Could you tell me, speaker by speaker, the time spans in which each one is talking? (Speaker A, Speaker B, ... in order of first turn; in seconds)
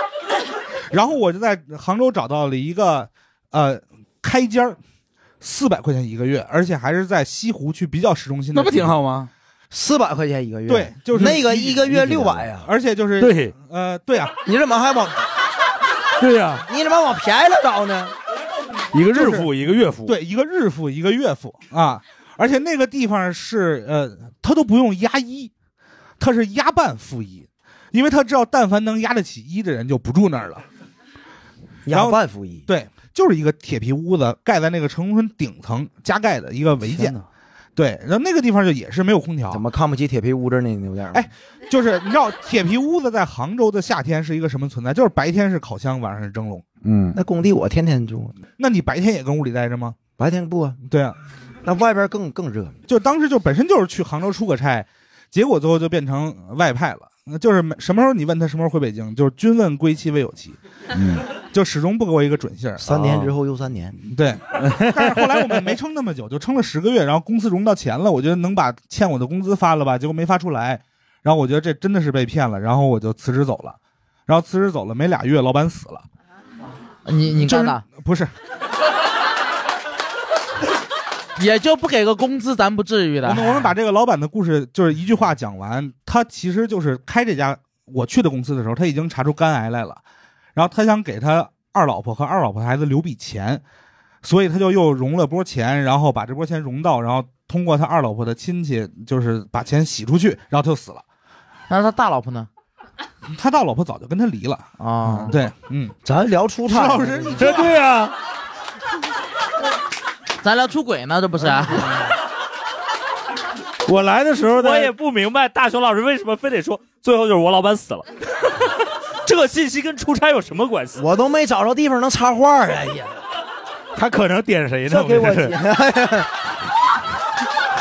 Speaker A: 0.9-4.8, 5.4-8.9, 10.7-14.4, 19.1-19.5, 20.1-25.5, 26.2-30.6, 31.9-37.2, 37.8-39.6, 41.1-46.7, 48.6-50.0, 50.9-51.2, 52.9-60.6, 61.3-62.8, 64.1-76.0, 77.3-78.3, 83.2-90.0, 90.6-93.6, 94.2-101.0, 103.3-104.7, 105.3-106.0, 106.7-107.8
Speaker B: 8.5-9.3, 13.2-13.5, 16.2-16.6, 18.9-20.1, 46.8-47.2, 60.9-61.3, 64.6-65.3, 107.4-108.1, 113.9-114.9, 124.0-125.6
Speaker C: 9.7-12.7, 14.4-15.2, 16.7-18.1, 31.9-32.6, 39.5-41.3, 47.1-48.4, 50.2-50.8, 51.6-52.8, 62.8-64.0, 106.0-107.6, 121.0-123.2, 124.9-126.3
Speaker D: 36.9-37.2, 62.9-63.3, 114.5-118.1, 119.2-121.0
Speaker E: 77.1-77.8, 81.4-83.7, 101.7-102.5, 104.8-105.3, 110.4-111.9